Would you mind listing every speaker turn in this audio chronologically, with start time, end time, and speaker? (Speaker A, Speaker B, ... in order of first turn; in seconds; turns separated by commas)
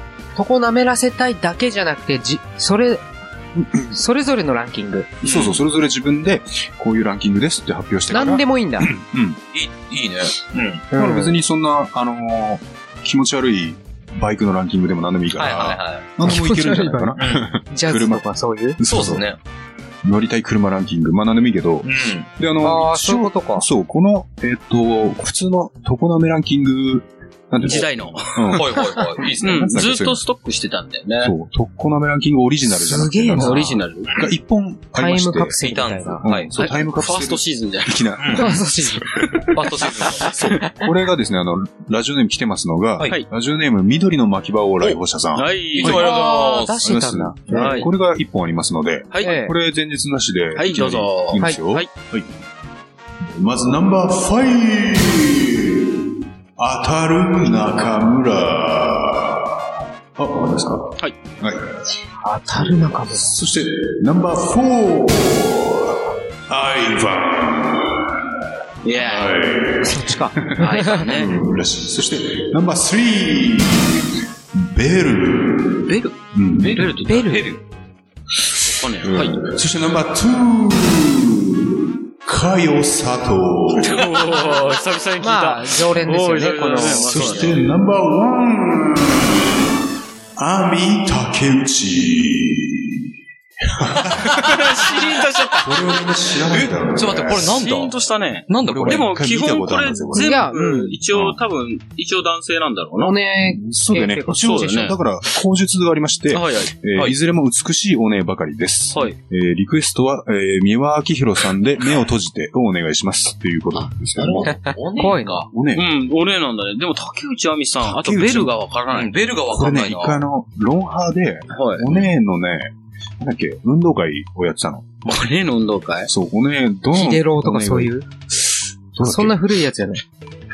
Speaker A: 0.3-3.0, Speaker A: 3.9-5.1, Speaker B: 5.2-9.4, Speaker C: 5.2-5.6, Speaker A: 8.1-8.9, Speaker C: 9.5-10.8, Speaker A: 10.9-11.3, Speaker B: 10.9-18.2, Speaker C: 15.3-16.1, Speaker A: 16.2-17.2, Speaker C: 17.2-17.5, Speaker A: 17.7-18.8, Speaker B: 18.8-19.2, Speaker C: 18.9-19.4, Speaker B: 20.0-30.2, Speaker C: 21.8-22.3, Speaker A: 22.6-23.6, Speaker D: 27.6-28.7, Speaker C: 28.5-29.7, Speaker D: 29.4-31.3, Speaker B: 31.2-35.6, Speaker A: 32.7-33.8, Speaker D: 33.3-34.1, Speaker A: 34.9-36.2, Speaker C: 35.6-36.5, Speaker B: 36.2-39.2, Speaker D: 36.6-38.1, Speaker C: 38.2-38.5, Speaker A: 38.4-39.1, Speaker C: 39.5-40.4, Speaker B: 40.2-46.1, Speaker D: 45.3-46.5, Speaker C: 45.8-46.7, Speaker A: 45.8-47.9, Speaker B: 46.8-52.3, Speaker D: 47.5-47.9, Speaker A: 49.2-49.5, Speaker D: 50.5-51.9, Speaker B: 53.2-55.9, Speaker B: 56.6-61.6, Speaker A: 62.2-63.3, Speaker B: 62.5-68.2, Speaker D: 68.8-69.5, Speaker B: 69.0-77.0, Speaker A: 69.8-71.0, Speaker D: 70.6-71.4, Speaker C: 75.9-77.6, Speaker D: 76.7-77.4, Speaker A: 77.0-77.5, Speaker D: 78.6-79.5, Speaker B: 79.0-84.4, Speaker D: 83.8-87.6, Speaker A: 85.2-87.3, Speaker B: 86.8-89.6, Speaker B: 90.4-93.0, Speaker B: 93.6-94.6, Speaker C: 94.2-94.6, Speaker D: 94.2-95.9, Speaker B: 95.6-97.6, Speaker C: 96.5-98.0, Speaker D: 97.3-103.2, Speaker C: 98.5-99.1, Speaker B: 98.6-100.5, Speaker A: 100.1-101.0, Speaker B: 101.1-101.4, Speaker A: 103.0-104.6, Speaker B: 103.4-114.6, Speaker D: 104.3-105.0, Speaker D: 106.3-106.7, Speaker D: 108.9-109.2, Speaker C: 114.2-115.5, Speaker A: 114.7-115.4, Speaker B: 115.5-115.9, Speaker D: 115.7-119.2, Speaker B: 117.8-118.5, Speaker C: 118.9-120.2, Speaker B: 119.5-125.0, Speaker D: 121.5-122.0, Speaker D: 125.0-126.1, Speaker B: 126.1-129.4, Speaker A: 126.9-128.1, Speaker A: 129.0-130.0